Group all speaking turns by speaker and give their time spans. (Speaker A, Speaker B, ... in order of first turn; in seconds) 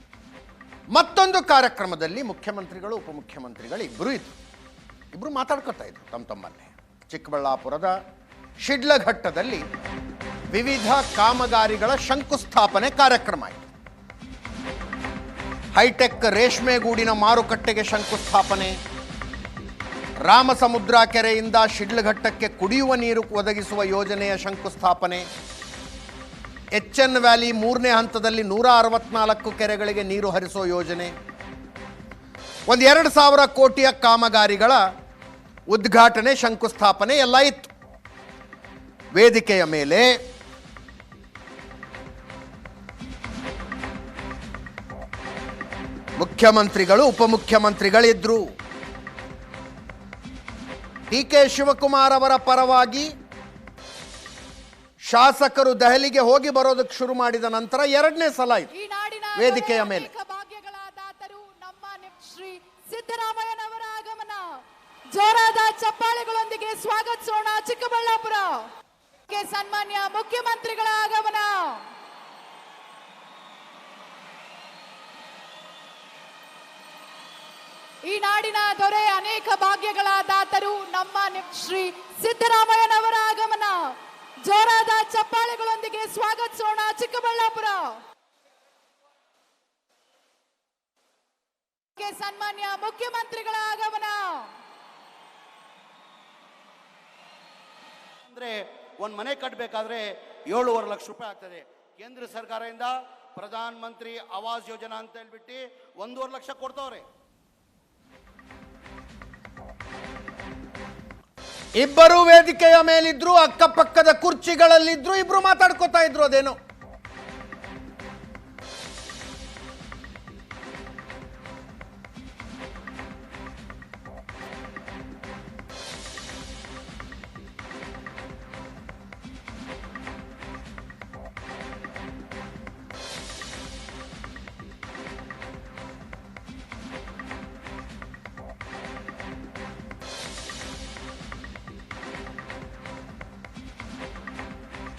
Speaker A: 0.9-4.3, 5.1-7.9, 8.6-9.6, 10.5-13.6, 15.8-18.8, 20.2-25.2, 26.7-31.1, 32.7-34.8, 35.7-37.7, 39.1-40.1, 46.2-48.4, 51.1-53.1, 55.1-58.7, 59.4-60.1, 111.8-116.5
Speaker B: 58.7-64.4, 65.1-68.6, 69.3-71.8, 78.1-83.9, 84.5-87.9, 92.0-94.5
Speaker C: 98.3-107.0